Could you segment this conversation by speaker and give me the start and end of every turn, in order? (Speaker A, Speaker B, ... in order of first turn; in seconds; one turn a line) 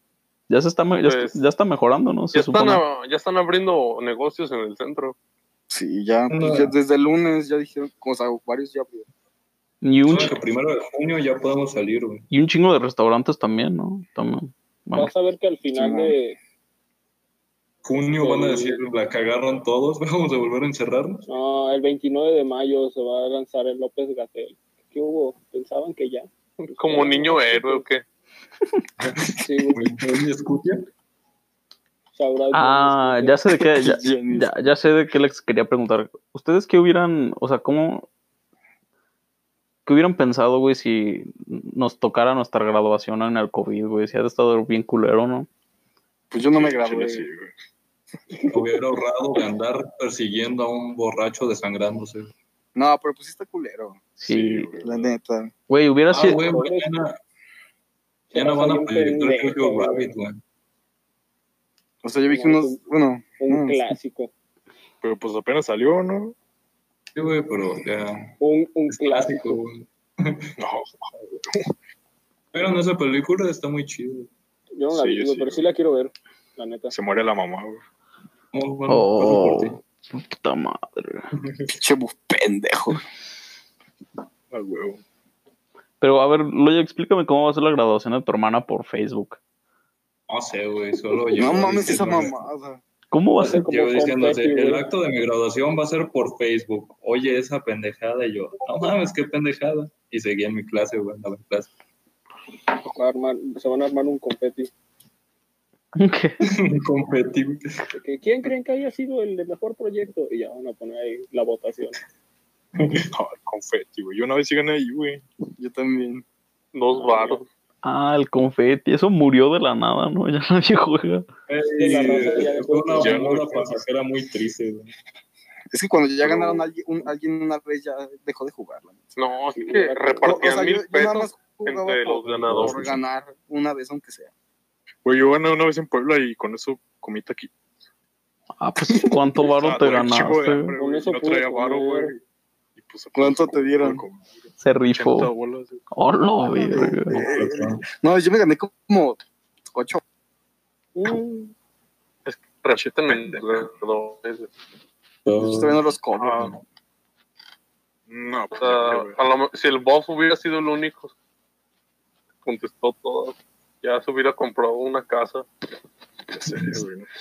Speaker A: 0.5-2.8
Speaker B: 1.0-1.4
Speaker B: 2.3-5.2
Speaker C: 5.7-9.1
Speaker D: 6.3-6.7
Speaker A: 9.8-10.3
Speaker D: 10.0-12.3
Speaker A: 12.3-15.1
Speaker E: 14.9-16.4
Speaker C: 15.7-16.1
Speaker D: 17.8-21.2
Speaker E: 18.2-18.8
Speaker E: 21.3-27.9
Speaker B: 26.7-28.0
Speaker D: 29.0-30.9
Speaker E: 29.4-29.8
Speaker E: 32.1-33.4
Speaker A: 32.5-38.1
Speaker C: 33.6-34.5
Speaker A: 39.9-45.5
Speaker C: 46.3-47.3
Speaker F: 46.5-47.5
Speaker D: 48.5-52.3
Speaker C: 52.8-54.1
Speaker A: 54.2-54.7
Speaker F: 54.2-55.1
Speaker C: 54.8-55.5
Speaker A: 55.7-56.4
Speaker D: 56.1-57.2
Speaker E: 56.2-57.0
Speaker E: 58.3-60.1
Speaker D: 58.3-60.4
Speaker C: 62.0-63.9
Speaker E: 62.3-62.8
Speaker E: 63.4-64.3
Speaker F: 65.0-66.3
Speaker D: 67.2-68.4
Speaker E: 68.4-69.6
Speaker D: 68.9-70.5
Speaker F: 70.6-71.7
Speaker D: 72.5-74.3
Speaker E: 74.8-76.9
Speaker F: 74.9-75.7
Speaker F: 76.9-77.8
Speaker D: 78.5-79.8
Speaker A: 78.9-81.2
Speaker D: 81.4-81.7
Speaker C: 81.8-83.0
Speaker F: 84.5-85.0
Speaker A: 86.0-89.4
Speaker D: 90.3-92.3
Speaker C: 91.3-92.8
Speaker A: 93.1-93.7
Speaker E: 93.4-94.9
Speaker D: 93.5-101.7
Speaker E: 102.8-104.7
Speaker A: 106.0-106.4
Speaker D: 106.4-107.8
Speaker E: 107.9-112.0
Speaker D: 112.8-113.1
Speaker F: 113.1-115.2
Speaker C: 115.6-116.2
Speaker B: 116.7-117.5
Speaker E: 116.9-117.4
Speaker A: 117.8-121.3
Speaker D: 121.5-124.9
Speaker E: 121.8-123.5
Speaker F: 123.0-123.7
Speaker C: 125.7-129.1
Speaker F: 126.2-126.7
Speaker B: 129.2-132.9
Speaker E: 129.6-130.4
Speaker C: 130.2-134.3
Speaker D: 132.3-133.0
Speaker F: 135.1-137.5
Speaker A: 138.6-140.7
Speaker F: 139.4-142.2
Speaker E: 140.8-142.1
Speaker F: 142.8-145.8
Speaker C: 143.2-144.0
Speaker A: 144.6-145.3
Speaker A: 145.9-147.2
Speaker C: 146.7-149.2
Speaker D: 147.1-147.8
Speaker C: 149.7-150.0
Speaker E: 151.0-151.5
Speaker B: 152.3-154.5
Speaker F: 152.4-153.7
Speaker D: 155.2-155.8
Speaker C: 155.4-156.5
Speaker F: 156.2-156.5
Speaker F: 158.1-159.2
Speaker B: 158.6-161.1
Speaker B: 162.4-165.5
Speaker F: 166.3-167.1